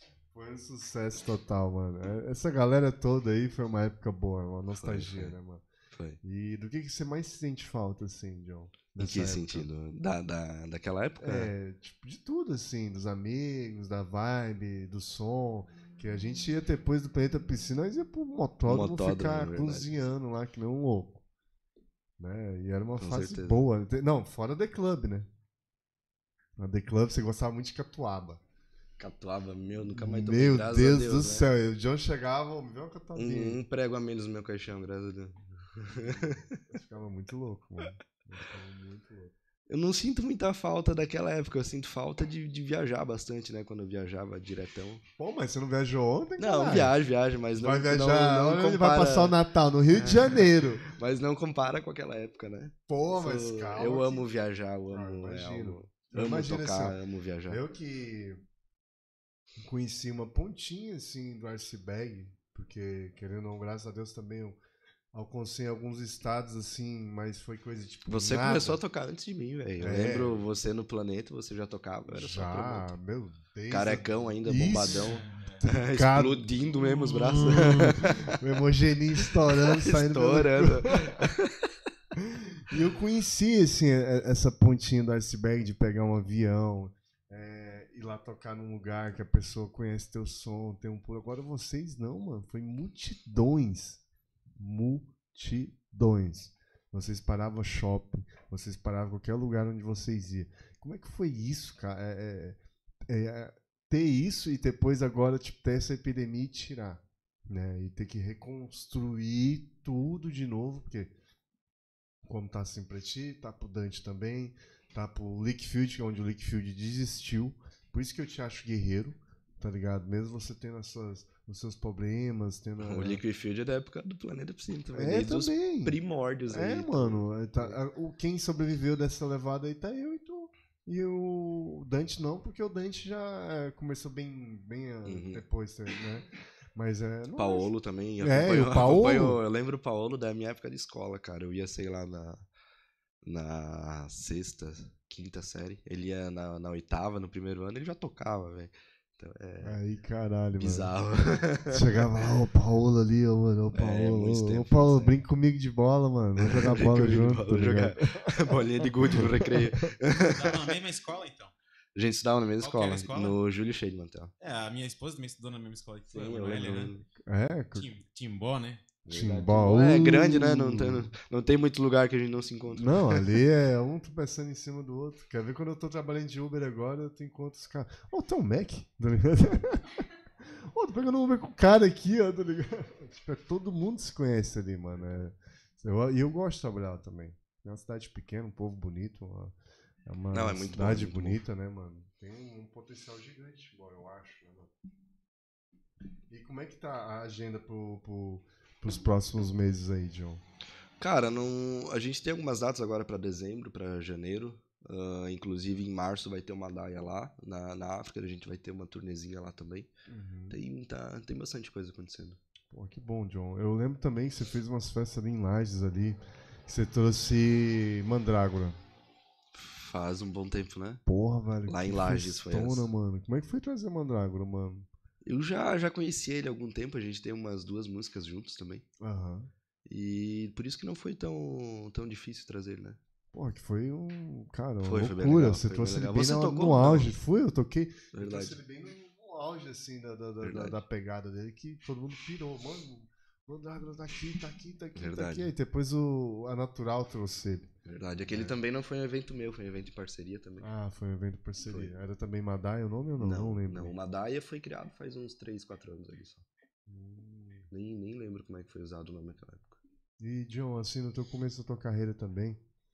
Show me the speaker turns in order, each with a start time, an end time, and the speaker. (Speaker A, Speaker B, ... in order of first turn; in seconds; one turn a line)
Speaker A: 0.3-5.6
Speaker B: 4.7-5.3
Speaker B: 5.9-6.2
Speaker A: 6.2-9.7
Speaker B: 9.0-11.5
Speaker A: 11.2-21.2
Speaker B: 18.6-19.9
Speaker A: 22.2-25.3
Speaker B: 23.0-23.6
Speaker A: 26.6-28.4
Speaker B: 29.0-31.5
Speaker A: 29.9-33.6
Speaker B: 33.1-36.6
Speaker A: 35.9-39.3
Speaker B: 39.7-45.0
Speaker A: 45.2-46.9
Speaker B: 46.4-49.4
Speaker A: 47.6-50.8
Speaker B: 49.9-57.6
Speaker A: 52.9-54.2
Speaker A: 54.9-58.4
Speaker A: 59.6-64.6
Speaker A: 65.1-68.8
Speaker B: 68.1-72.9
Speaker A: 69.8-70.4
Speaker A: 72.1-81.2
Speaker B: 73.7-78.4
Speaker C: 75.0-75.6
Speaker C: 76.7-78.1
Speaker B: 79.2-81.7
Speaker A: 82.1-94.0
Speaker A: 94.6-111.1
Speaker A: 112.2-123.2
Speaker B: 122.8-127.8
Speaker A: 124.9-126.0
Speaker A: 126.5-139.4
Speaker B: 135.1-135.4
Speaker B: 137.3-142.4
Speaker B: 143.2-149.8
Speaker A: 149.6-150.9
Speaker B: 150.6-152.2
Speaker A: 151.7-159.9
Speaker B: 153.7-155.2
Speaker B: 156.4-160.6
Speaker C: 160.2-161.5
Speaker B: 161.9-164.3
Speaker C: 162.6-163.4
Speaker C: 164.4-166.9
Speaker B: 166.1-167.1
Speaker A: 167.2-167.9
Speaker C: 167.7-168.9
Speaker B: 169.0-173.3
Speaker A: 169.1-171.1
Speaker A: 172.7-194.7
Speaker B: 184.9-185.3
Speaker B: 190.3-191.4
Speaker A: 196.3-200.4
Speaker B: 201.0-209.9
Speaker A: 210.1-210.6
Speaker B: 210.5-212.4
Speaker A: 212.7-218.8
Speaker B: 219.5-221.0
Speaker A: 221.1-224.9
Speaker B: 221.7-222.9
Speaker B: 225.2-228.8
Speaker A: 229.0-229.5
Speaker B: 229.8-233.0
Speaker A: 233.3-247.7
Speaker B: 234.8-237.1
Speaker B: 238.1-238.6
Speaker B: 240.4-240.8
Speaker B: 244.9-245.5
Speaker B: 247.8-250.7
Speaker A: 250.6-253.9
Speaker B: 251.7-251.9
Speaker B: 253.2-256.4
Speaker A: 256.9-257.7
Speaker B: 257.7-259.8
Speaker A: 260.2-262.6